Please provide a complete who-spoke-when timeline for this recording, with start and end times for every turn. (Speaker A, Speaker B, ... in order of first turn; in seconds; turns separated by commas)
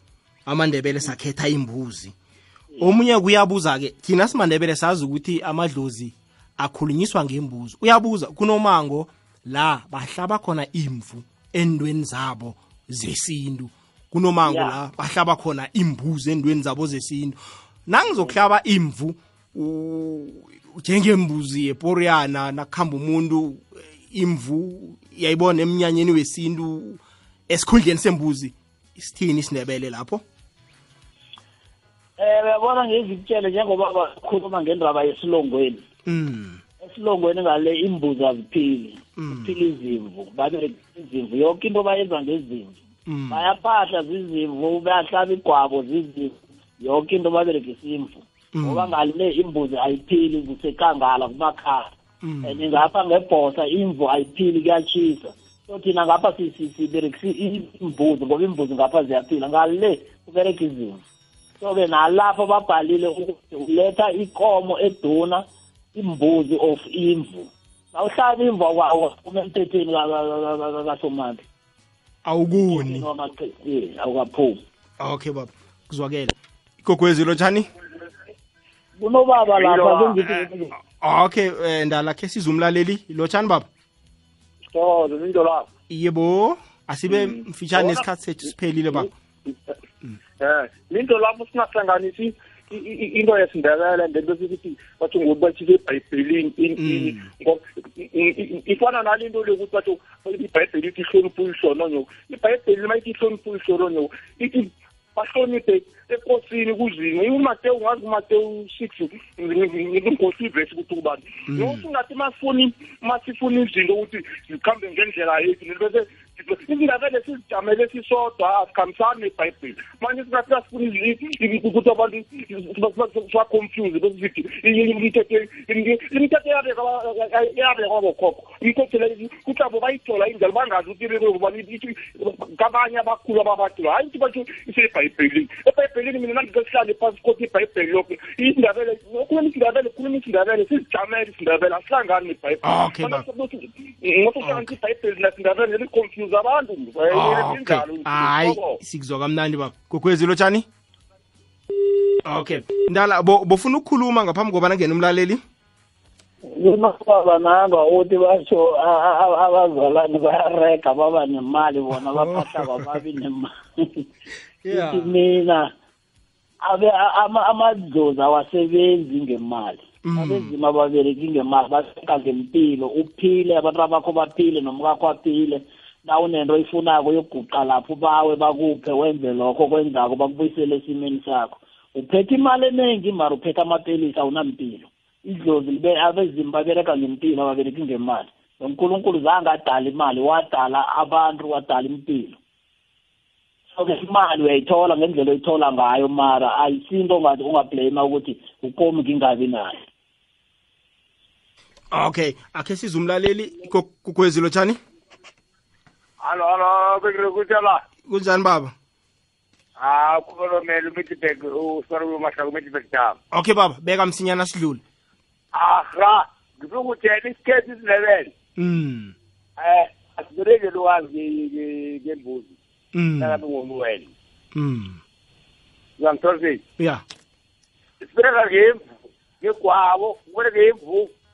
Speaker A: 0.5-2.1, Speaker A: 2.8-17.4, Speaker B: 14.4-14.7, Speaker A: 17.9-30.2, Speaker B: 32.2-35.8, Speaker A: 36.1-36.6, Speaker B: 36.8-51.9, Speaker A: 39.2-39.5, Speaker A: 43.1-43.5, Speaker A: 48.5-49.0, Speaker A: 52.2-52.6, Speaker B: 52.4-61.0, Speaker B: 61.6-71.4, Speaker A: 72.3-73.1, Speaker B: 72.7-74.6, Speaker A: 75.0-77.7, Speaker B: 79.0-80.7, Speaker C: 79.6-80.2, Speaker A: 80.2-83.7, Speaker C: 84.7-85.7, Speaker A: 85.9-89.1, Speaker C: 87.1-88.0, Speaker C: 90.4-148.8, Speaker A: 96.8-97.3, Speaker A: 111.5-111.8, Speaker A: 142.6-143.2, Speaker A: 144.4-144.8, Speaker A: 147.1-150.7, Speaker A: 152.2-155.4, Speaker B: 156.5-164.1, Speaker A: 162.2-162.9, Speaker A: 164.6-165.1, Speaker B: 164.7-165.7, Speaker B: 166.6-192.4, Speaker A: 170.1-170.5, Speaker B: 193.7-199.8, Speaker A: 201.9-204.8, Speaker C: 206.2-207.8, Speaker A: 208.1-208.7, Speaker C: 209.8-213.2, Speaker A: 213.3-214.8, Speaker C: 215.6-218.3, Speaker A: 218.6-219.2, Speaker C: 219.6-222.5, Speaker A: 222.9-223.4, Speaker C: 223.2-224.1, Speaker A: 224.6-225.0, Speaker C: 226.0-226.6, Speaker C: 228.0-228.8, Speaker C: 229.4-231.1